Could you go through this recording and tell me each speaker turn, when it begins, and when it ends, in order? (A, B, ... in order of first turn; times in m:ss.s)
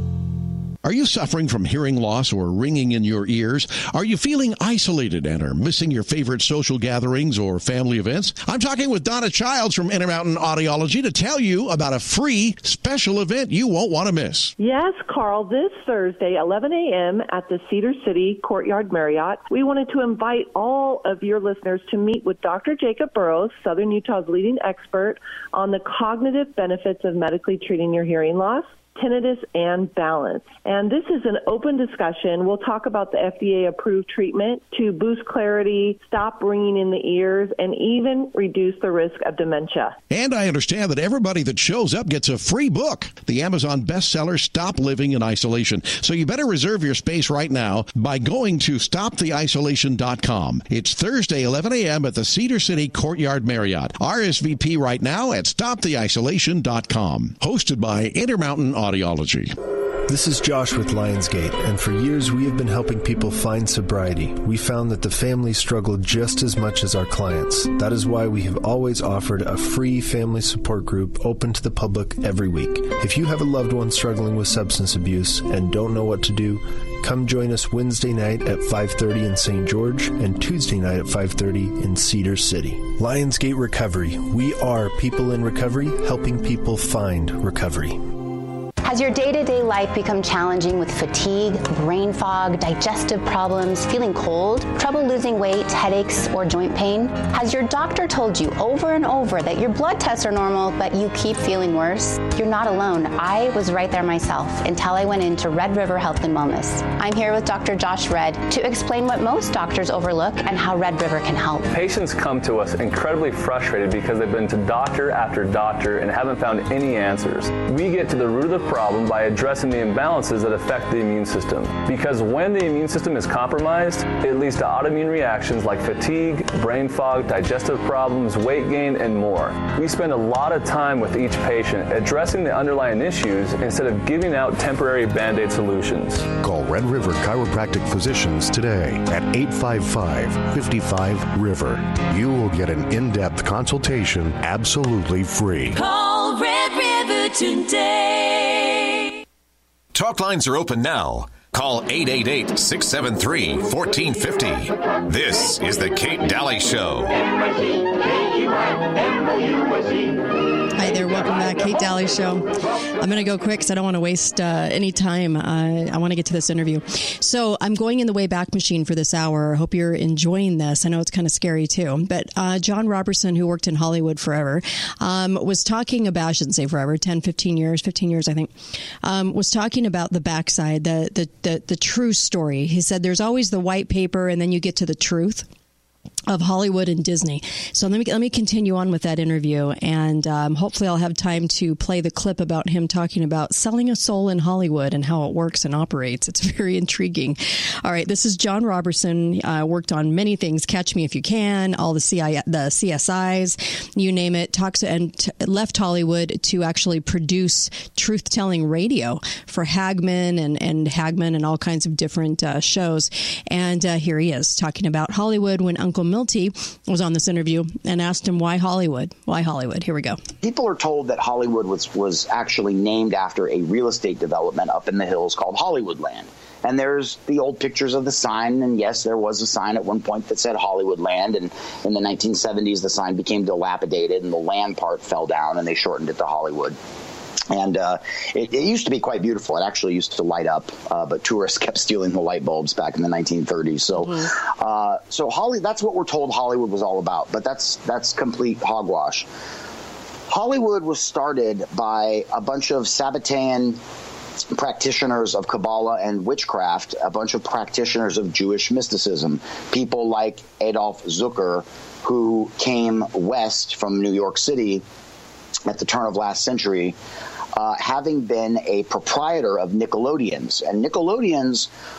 0:00.8-0:14.5 A
0:14.6-0:40.0 B
0:40.1-0:59.5 A
1:00.1-1:28.0 C
1:28.8-1:51.7 D
1:51.7-2:16.3 E
2:16.4-2:25.8 F
2:25.7-2:29.1 G
2:29.9-2:37.2 H
2:40.8-2:58.5 I
2:59.0-3:05.4 I
3:06.3-3:40.2 I
3:40.4-3:56.8 J
3:57.5-4:09.3 J
4:10.3-4:13.8 J
4:14.5-4:24.8 J
4:25.7-4:27.0 J
4:27.6-4:31.7 J